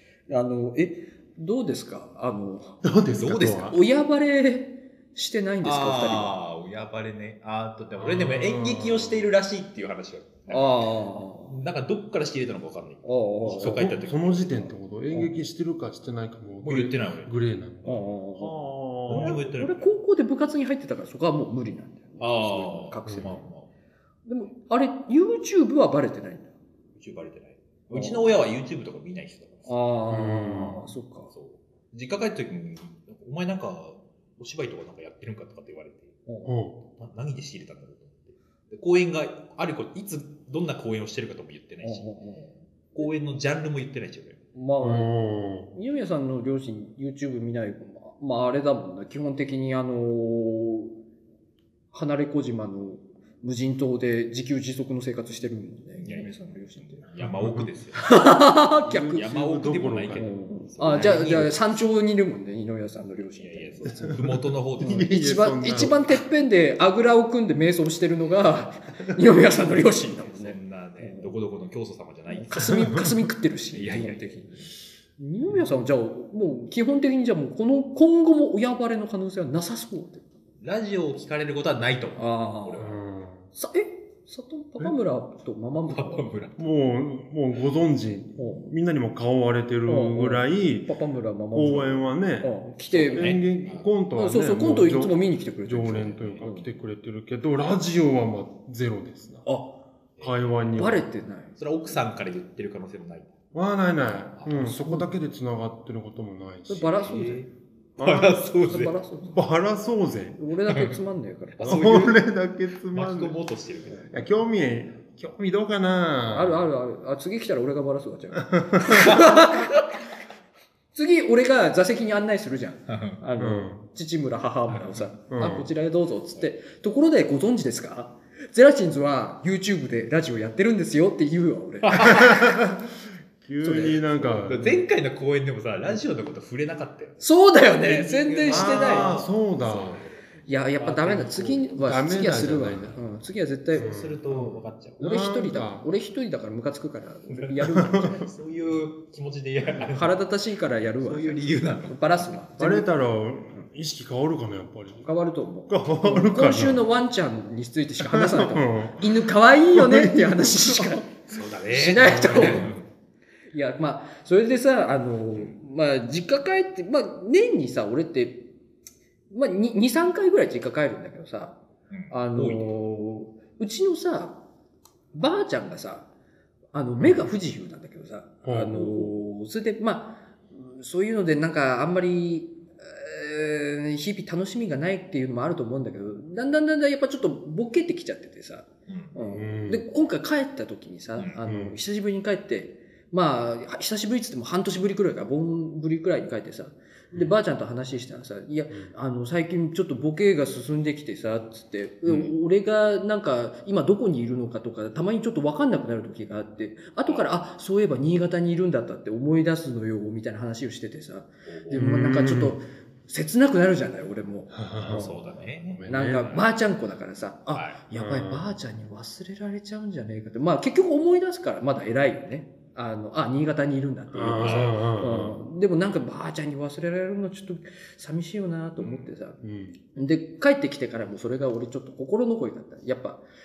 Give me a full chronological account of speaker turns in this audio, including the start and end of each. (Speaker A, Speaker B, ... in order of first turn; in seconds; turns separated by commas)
Speaker A: 0.3-2.8, Speaker B: 2.8-3.8, Speaker C: 3.1-3.8, Speaker A: 3.7-6.3, Speaker C: 5.6-10.9, Speaker B: 8.0-9.3, Speaker A: 10.5-11.6, Speaker C: 11.5-14.7, Speaker A: 13.0-13.9, Speaker B: 13.4-19.4, Speaker A: 15.1-15.4, Speaker C: 16.6-17.3, Speaker A: 17.8-23.4, Speaker C: 19.1-19.9, Speaker C: 22.2-23.7, Speaker B: 23.1-23.4, Speaker A: 24.3-26.5, Speaker C: 27.0-29.8, Speaker A: 27.9-28.3, Speaker A: 29.7-31.3, Speaker B: 30.1-30.8, Speaker C: 31.3-36.1, Speaker A: 36.3-36.5, Speaker B: 36.5-36.8, Speaker C: 37.0-42.1, Speaker A: 41.8-42.5, Speaker C: 42.9-44.4, Speaker A: 44.5-45.1, Speaker B: 44.8-45.7, Speaker A: 45.7-50.9, Speaker A: 51.9-57.0, Speaker C: 56.0-56.3, Speaker C: 57.0-58.1, Speaker B: 57.2-57.7, Speaker A: 58.0-59.3, Speaker B: 58.8-61.5, Speaker C: 59.1-61.6, Speaker A: 60.1-64.1, Speaker C: 63.4-65.2, Speaker B: 63.9-66.0, Speaker A: 64.8-71.3, Speaker C: 69.6-73.0, Speaker A: 72.3-74.6, Speaker C: 73.7-74.5, Speaker A: 75.2-80.2, Speaker C: 80.6-83.0, Speaker A: 82.2-82.9, Speaker B: 82.8-83.5, Speaker A: 83.5-86.3, Speaker C: 85.9-86.6, Speaker B: 86.6-90.9, Speaker A: 88.4-88.7, Speaker A: 89.9-93.4, Speaker B: 91.5-99.4, Speaker C: 93.0-93.9, Speaker A: 94.1-96.7, Speaker C: 96.2-96.4, Speaker A: 99.4-99.8, Speaker B: 100.2-101.0, Speaker A: 100.8-101.5, Speaker C: 101.6-103.3, Speaker B: 103.5-107.0, Speaker C: 104.4-104.7, Speaker A: 104.5-105.1, Speaker A: 106.7-107.4, Speaker C: 107.0-108.9, Speaker B: 108.0-108.4, Speaker A: 108.7-109.4, Speaker B: 109.3-110.4, Speaker A: 110.4-112.1, Speaker C: 110.7-111.0, Speaker C: 111.6-112.2, Speaker B: 111.6-113.4, Speaker C: 112.9-114.2, Speaker B: 114.1-116.7, Speaker A: 116.3-120.0, Speaker B: 118.4-119.2, Speaker A: 120.9-132.6, Speaker C: 122.9-123.2, Speaker B: 123.4-123.8, Speaker C: 124.7-125.0, Speaker B: 125.3-125.7, Speaker C: 131.8-132.4, Speaker B: 132.0-134.8, Speaker A: 133.6-134.4, Speaker C: 134.4-137.2, Speaker A: 137.2-139.2, Speaker C: 137.7-140.2, Speaker B: 138.4-140.0, Speaker A: 140.5-143.9, Speaker C: 140.8-141.6, Speaker B: 141.6-142.9, Speaker C: 143.7-145.0, Speaker B: 143.7-145.9, Speaker A: 145.0-148.3, Speaker C: 147.4-150.2, Speaker B: 147.7-148.2, Speaker A: 149.9-152.9, Speaker C: 151.0-152.0, Speaker B: 152.6-155.1, Speaker A: 155.0-161.1, Speaker B: 155.7-156.9, Speaker B: 158.0-161.0, Speaker C: 161.3-162.8, Speaker A: 161.7-162.7, Speaker B: 161.9-162.7, Speaker A: 163.5-168.4, Speaker A: 169.3-171.6, Speaker C: 171.9-172.7, Speaker A: 172.1-174.4, Speaker A: 175.1-176.1, Speaker A: 176.7-215.3, Speaker B: 178.4-179.2, Speaker C: 188.9-189.2, Speaker B: 189.3-189.8, Speaker B: 191.4-191.8, Speaker C: 211.5-211.8, Speaker B: 211.7-212.6, Speaker B: 214.5-215.1, Speaker C: 214.8-216.5, Speaker B: 215.7-216.3, Speaker A: 215.9-229.4, Speaker C: 217.5-217.8, Speaker B: 217.9-218.5, Speaker B: 224.1-225.3, Speaker C: 224.4-224.7, Speaker C: 228.8-229.1, Speaker B: 229.4-229.7, Speaker A: 229.9-233.2